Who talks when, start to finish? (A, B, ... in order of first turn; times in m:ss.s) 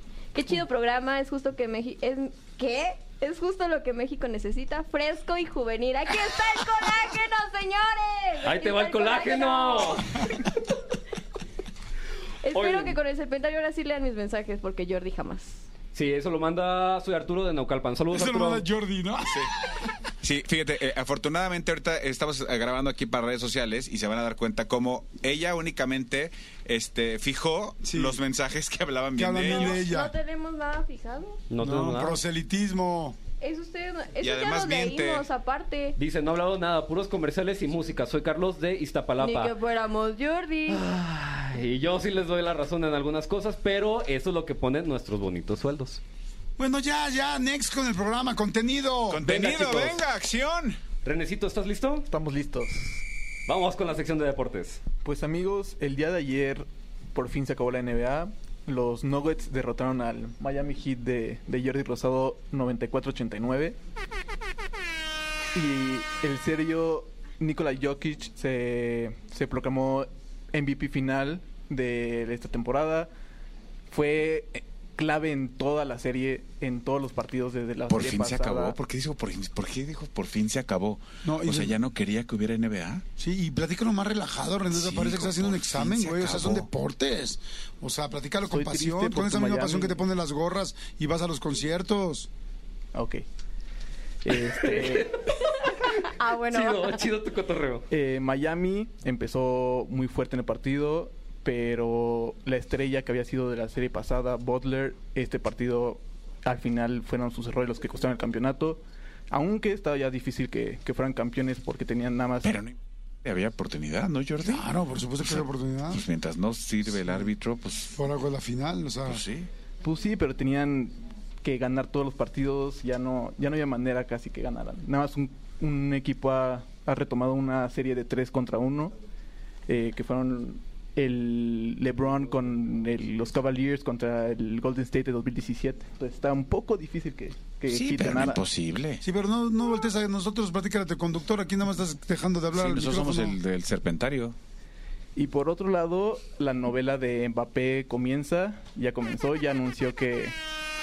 0:00.3-0:10.3 A
0:08.4-0:10.1 B
0:12.4-0:15.6 A
0:12.5-0:13.0 B
0:15.9-0:18.7 B
0:18.1-0:19.8 C
0:20.2-0:29.8 D
0:27.8-0:28.2 C
0:29.2-0:30.1 C
0:29.4-0:31.4 A
0:31.5-0:32.2 B
0:31.6-0:33.2 C
0:33.4-0:36.0 A
0:34.2-0:35.3 D
0:36.0-0:39.5 B
0:39.2-0:40.8 A
0:40.7-0:46.0 B
0:46.6-0:49.2 C
0:49.1-0:50.8 D
0:49.2-0:50.0 B
0:51.0-0:52.1 B
0:52.1-0:53.0 E
0:53.5-0:54.8 B
0:55.0-1:03.8 E
1:05.5-1:13.1 E
1:13.9-1:18.8 E
1:17.9-1:23.0 D
1:21.2-1:21.8 C
1:23.2-1:32.3 C
1:24.7-1:26.7 D
1:28.5-1:30.0 E
1:32.9-1:33.2 E
1:34.2-1:35.1 E
1:34.3-1:37.8 B
1:36.2-1:37.0 A
1:37.9-1:52.6 E
1:52.4-1:54.7 D
1:54.4-1:56.0 C
1:55.2-1:57.9 D
1:57.9-1:59.2 C
1:59.1-1:59.5 D
1:59.8-2:08.9 E
2:09.7-2:18.4 E
2:17.7-2:19.0 D
2:19.0-2:23.4 C
2:22.5-2:24.4 D
2:25.2-2:30.4 E